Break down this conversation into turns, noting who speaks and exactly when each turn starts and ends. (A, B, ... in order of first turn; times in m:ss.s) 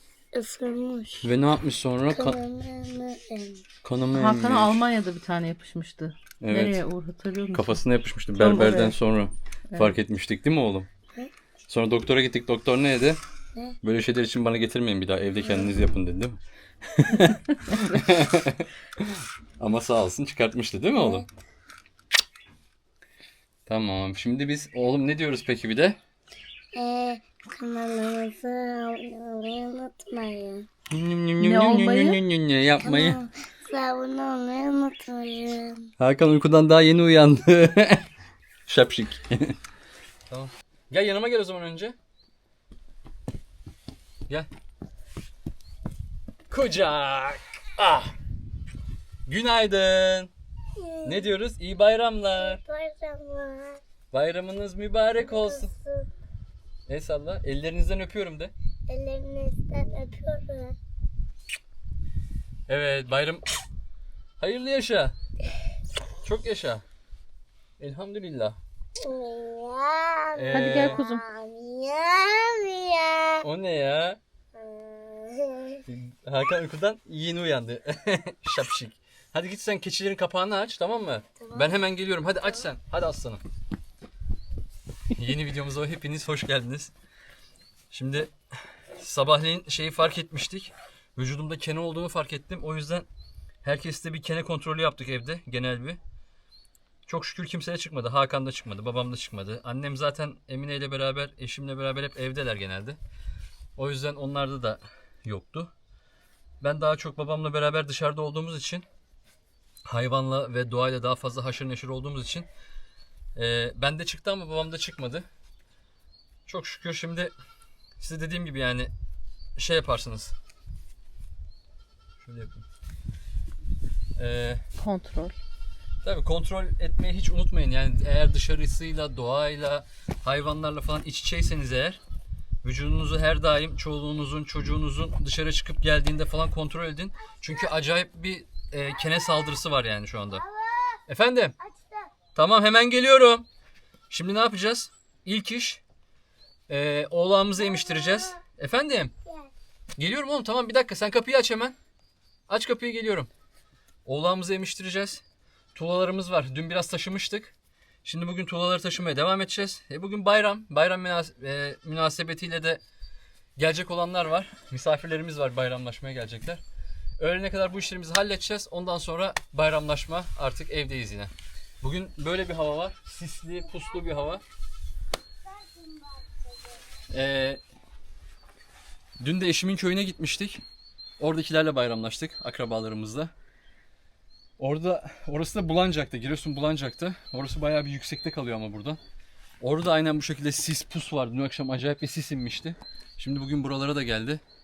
0:00.3-0:01.3 A
0:01.2-0:02.4 B
0:02.1-0:03.6 A
0:03.8-0:04.8 B
0:04.1-0:07.8 C
0:06.4-0:06.8 B
0:07.5-0:10.9 B
0:08.3-0:09.0 C
0:11.7-0:13.2 B
0:13.8-0:18.7 B
0:19.6-0:21.3 B
0:23.7-0:26.0 B
0:26.8-0:30.7 A
0:30.9-0:33.2 B
0:31.4-0:32.2 C
0:32.8-0:35.9 A
0:36.0-0:38.0 B
0:38.7-0:39.6 B
0:40.3-0:42.0 B
0:46.5-0:48.1 B
0:49.3-0:50.3 B
0:50.8-0:51.3 A
0:51.0-0:52.6 B
0:52.4-0:53.8 A
0:54.1-0:55.7 B
0:55.2-0:56.1 A
0:56.9-0:58.5 B
0:58.9-1:00.8 A
1:02.7-1:03.4 B
1:04.4-1:05.2 B
1:06.2-1:06.8 B
1:07.8-1:08.6 B
1:09.0-1:13.4 A
1:10.3-1:11.0 B
1:10.5-1:11.2 C
1:13.4-1:14.2 B
1:14.6-1:15.8 A
1:15.9-1:23.4 B
1:21.4-1:21.7 A
1:25.1-1:26.9 B
1:27.9-1:28.3 B
1:28.9-1:33.1 B
1:33.6-1:36.0 B
1:37.1-1:43.0 B
1:43.8-1:45.7 B
1:46.6-1:48.9 B
1:49.8-1:52.5 B
1:53.4-1:55.3 B
1:56.5-1:57.3 B
1:58.0-1:58.9 B
1:59.6-2:00.4 B
2:02.2-2:02.6 B
2:04.2-2:04.6 B
2:04.8-2:05.4 C
2:06.0-2:12.0 B
2:12.6-2:20.4 B
2:20.3-2:21.0 A
2:21.1-2:21.6 B
2:21.6-2:22.1 A
2:22.4-2:23.5 B
2:24.1-2:25.8 B
2:26.7-2:29.1 B
2:27.6-2:28.4 A
2:29.3-2:29.5 A
2:30.0-2:31.8 B
2:32.5-2:33.3 B
2:34.0-2:35.2 B
2:35.8-2:37.5 B
2:38.0-2:42.8 B
2:43.6-2:46.6 B
2:47.2-2:54.4 B
2:55.5-2:56.8 A
2:57.1-2:57.6 B
2:59.2-3:00.6 B
3:01.2-3:03.3 B
3:04.6-3:09.0 B
3:09.6-3:14.4 B